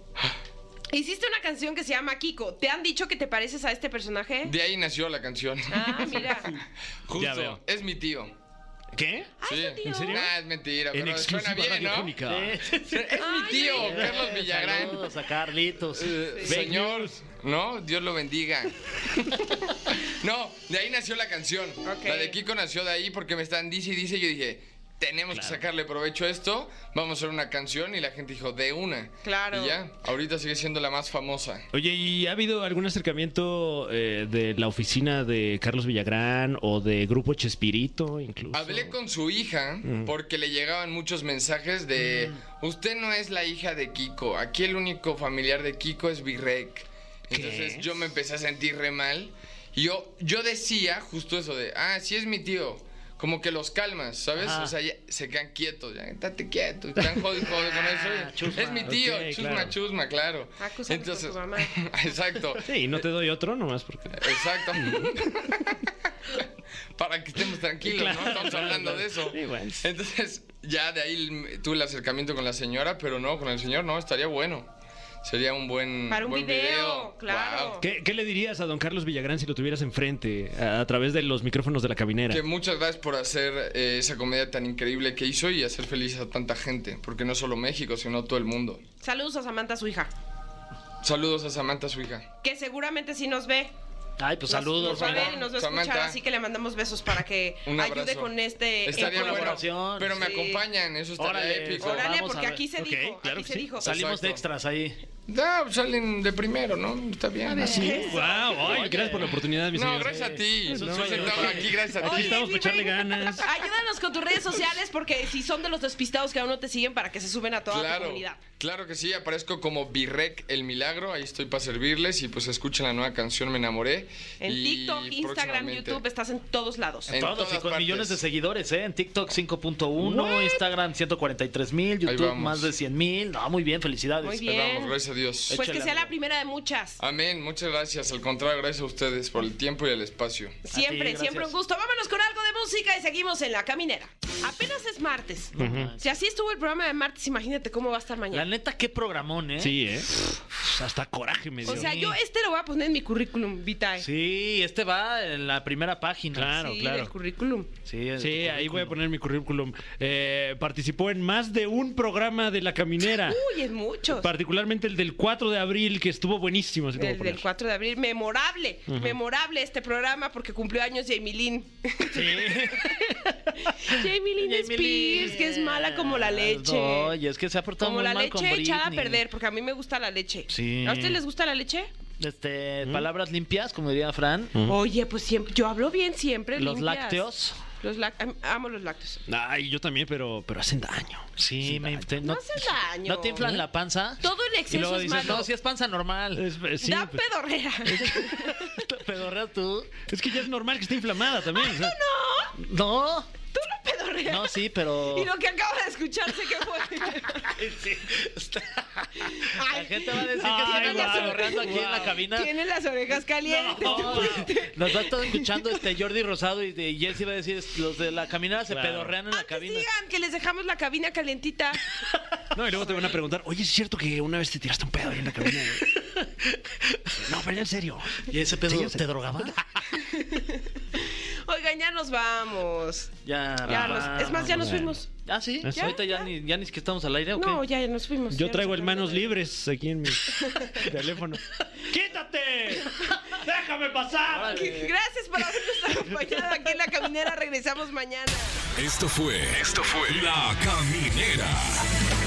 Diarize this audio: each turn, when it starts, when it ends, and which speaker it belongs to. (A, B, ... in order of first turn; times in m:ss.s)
0:00.9-0:04.5 A
0:04.4-0:06.5 B
0:05.7-0:06.5 A
0:07.1-0:08.3 B
0:07.1-0:07.6 C
0:08.9-0:10.3 C
0:09.4-0:10.3 A
0:09.4-0:12.2 B
0:10.9-0:12.6 C
0:12.3-0:16.2 D
0:12.8-0:15.1 B
0:13.2-0:14.0 A
0:15.9-0:31.6 B
0:16.2-0:16.5 A
0:16.4-0:17.2 C
0:21.8-0:22.3 A
0:25.3-0:25.6 C
0:29.2-0:29.8 A
0:31.7-0:38.9 C
0:38.5-1:02.8 B
0:39.8-0:40.1 C
0:42.0-0:42.4 D
0:47.3-0:47.9 C
0:54.4-0:54.7 D
0:57.6-0:59.0 D
0:58.8-0:59.7 C
1:00.6-1:01.7 A
1:02.6-1:05.2 C
1:04.1-1:14.7 B
1:07.8-1:09.8 C
1:15.2-1:17.8 B
1:16.1-1:17.8 A
1:17.8-1:22.4 C
1:22.3-1:28.8 B
1:29.0-1:30.1 A
1:31.0-1:32.3 B
1:32.4-1:33.7 A
1:34.2-1:35.4 D
1:34.5-1:40.6 A
1:34.7-1:36.2 B
1:37.6-1:38.3 B
1:38.8-1:42.1 B
1:38.9-1:40.3 D
1:41.2-1:45.0 D
1:41.8-1:44.0 A
1:42.8-1:43.6 C
1:43.8-1:44.4 B
1:45.3-1:47.9 B
1:47.5-1:49.4 D
1:47.6-1:48.6 A
1:47.6-1:53.5 C
1:49.7-1:52.4 B
1:50.0-1:51.9 D
1:52.0-1:58.4 A
1:57.7-2:06.0 B
2:04.4-2:07.2 A
2:07.1-2:08.2 B
2:07.1-2:14.4 D
2:10.0-2:10.6 A
2:12.0-2:12.7 B
2:14.2-2:14.9 A
2:14.4-2:15.6 B
2:15.5-2:16.1 D
2:15.5-2:17.0 A
2:17.0-2:20.6 B
2:20.7-2:28.5 A
2:20.7-2:21.5 D
2:25.6-2:26.0 D
2:25.6-2:25.9 C
2:28.3-2:29.7 D
2:29.6-2:31.9 C
2:31.6-2:34.0 A
2:31.6-2:32.2 D
2:34.0-2:36.6 D
2:36.3-2:37.1 C
2:36.5-2:37.7 A
2:37.8-2:39.0 D
2:38.2-2:43.4 C
2:43.2-2:44.3 A
2:44.1-2:47.4 C
2:47.0-2:52.9 A
2:48.9-2:49.2 C
2:52.1-2:59.2 D
2:53.7-2:57.2 A
2:57.8-3:01.9 A
3:00.5-3:01.2 D
3:02.2-3:04.6 D
3:02.8-3:03.1 C
3:04.6-3:07.2 A
3:06.6-3:07.6 D
3:07.8-3:09.2 A
3:09.3-3:12.1 C
3:11.4-3:16.4 D
3:12.2-3:13.6 A
3:14.2-3:15.5 A
3:16.3-3:17.2 C
3:16.8-3:18.8 A
3:17.8-3:18.4 C
3:18.1-3:20.0 D
3:20.1-3:22.0 C
3:21.5-3:22.5 A
3:22.6-3:23.3 D
3:23.5-3:27.6 A
3:24.3-3:25.3 D
3:27.5-3:32.5 D
3:29.2-3:35.8 A
3:30.4-3:32.2 C
3:33.4-3:39.9 D
3:33.8-3:34.4 C
3:38.7-3:39.1 C
3:39.3-3:41.8 A
3:42.5-3:46.0 C
3:42.8-3:43.1 A
3:46.0-3:47.2 D
3:47.2-3:49.5 C
3:48.2-3:50.0 D
3:50.0-3:55.1 A
3:53.2-3:57.6 D
3:53.6-3:54.9 C
3:55.6-3:56.0 C
3:55.7-3:56.3 A
3:57.3-3:59.3 A
3:58.3-4:04.7 C
4:00.3-4:00.9 A
4:04.3-4:04.9 D
4:04.5-4:08.6 A
4:08.7-4:11.8 E